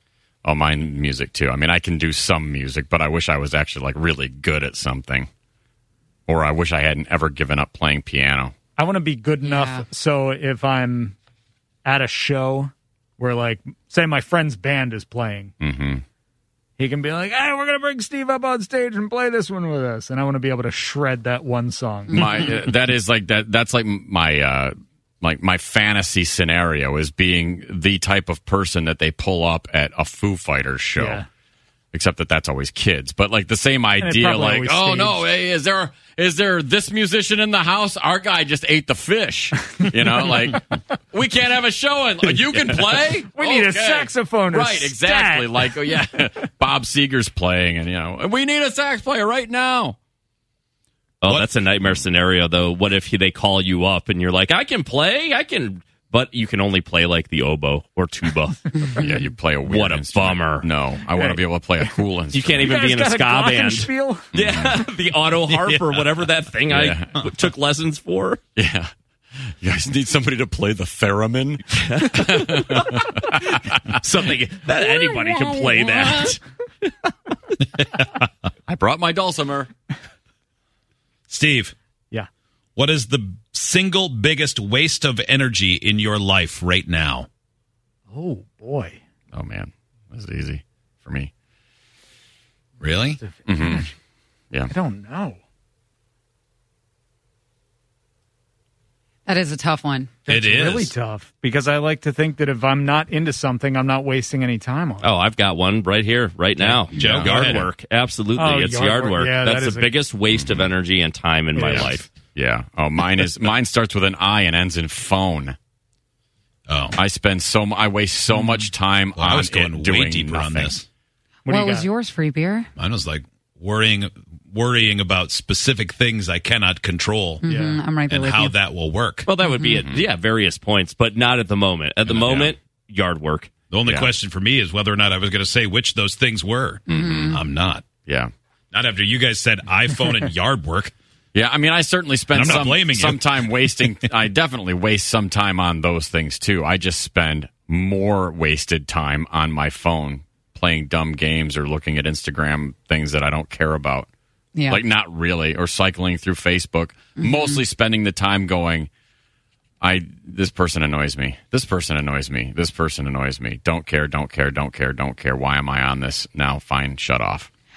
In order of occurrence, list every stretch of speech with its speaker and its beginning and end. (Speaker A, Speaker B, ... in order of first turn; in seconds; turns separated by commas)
Speaker A: 0.4-5.3, Speaker A: 6.3-8.5, Speaker B: 8.8-11.2, Speaker C: 9.4-9.9, Speaker B: 11.8-15.5, Speaker A: 15.6-16.0, Speaker B: 16.8-22.1, Speaker C: 22.1-22.5, Speaker A: 22.1-31.2, Speaker B: 31.0-31.2, Speaker A: 31.9-50.0, Speaker B: 34.0-35.2, Speaker B: 43.3-45.7, Speaker D: 51.2-59.0, Speaker A: 58.9-62.8, Speaker D: 59.7-60.7, Speaker B: 61.1-61.9, Speaker D: 62.3-68.4, Speaker B: 62.7-64.3, Speaker A: 64.3-64.7, Speaker A: 66.7-67.2, Speaker A: 68.6-72.9, Speaker D: 71.8-76.4, Speaker A: 78.7-79.7, Speaker E: 81.3-81.7, Speaker E: 82.8-87.3, Speaker B: 88.1-89.0, Speaker A: 89.3-91.3, Speaker E: 92.8-93.2, Speaker B: 93.2-93.9, Speaker A: 93.5-93.9, Speaker B: 94.7-95.4, Speaker C: 99.2-100.1, Speaker B: 100.2-105.1, Speaker E: 100.3-100.9, Speaker D: 105.0-112.1, Speaker E: 106.9-107.7, Speaker A: 106.9-107.3, Speaker B: 108.3-109.9, Speaker A: 110.3-110.7, Speaker A: 112.3-115.6, Speaker E: 116.7-117.0, Speaker A: 117.0-120.8, Speaker E: 119.2-120.8, Speaker B: 121.5-121.9, Speaker C: 121.5-122.7, Speaker E: 122.8-127.5, Speaker C: 127.4-128.6, Speaker B: 127.5-127.8, Speaker E: 128.1-129.3, Speaker D: 129.2-133.5, Speaker C: 129.4-129.8, Speaker A: 132.2-132.5, Speaker E: 133.7-137.9, Speaker A: 133.9-134.1, Speaker A: 136.9-137.4, Speaker C: 136.9-137.4, Speaker A: 138.1-138.3, Speaker E: 138.7-140.9, Speaker A: 141.3-154.1, Speaker E: 142.3-143.2, Speaker C: 154.6-154.8, Speaker A: 154.7-158.9, Speaker C: 157.2-157.6, Speaker A: 159.8-167.5